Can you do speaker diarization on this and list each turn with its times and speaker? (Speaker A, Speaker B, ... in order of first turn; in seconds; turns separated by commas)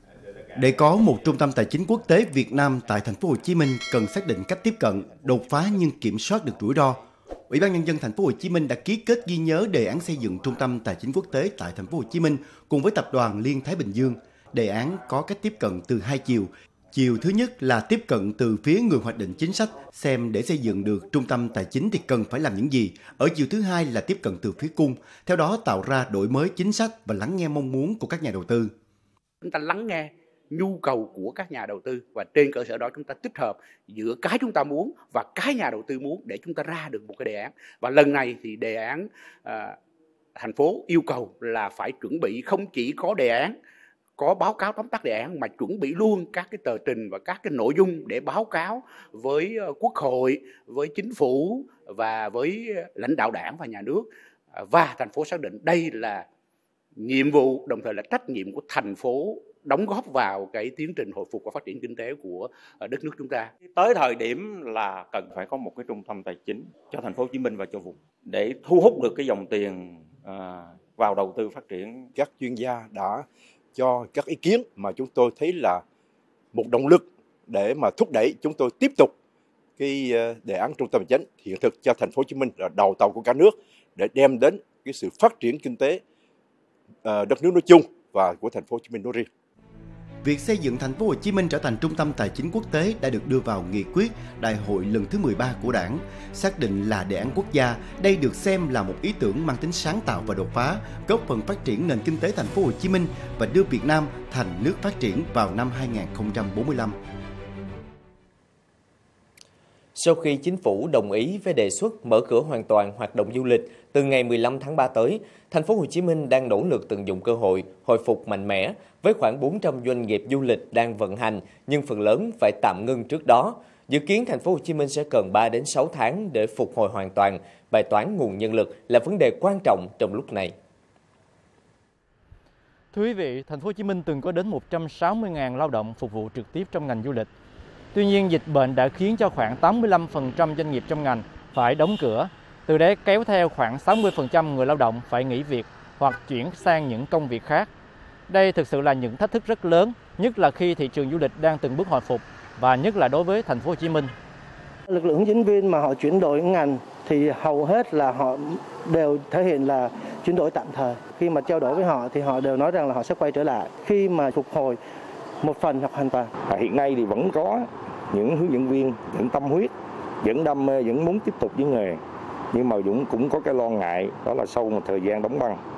Speaker A: 0.6-28.7, Speaker B: 29.4-39.8, Speaker B: 40.4-43.5, Speaker B: 44.2-56.2, Speaker B: 57.0-63.5, Speaker C: 63.7-72.1, Speaker D: 72.2-75.8, Speaker D: 76.5-79.1, Speaker D: 79.8-86.0, Speaker D: 87.0-89.3, Speaker A: 90.2-107.0, Speaker E: 110.0-130.6, Speaker F: 132.9-137.3, Speaker F: 137.9-147.7, Speaker F: 148.3-154.1, Speaker G: 154.9-164.8, Speaker G: 165.4-166.3, Speaker H: 166.4-172.0, Speaker H: 172.5-175.6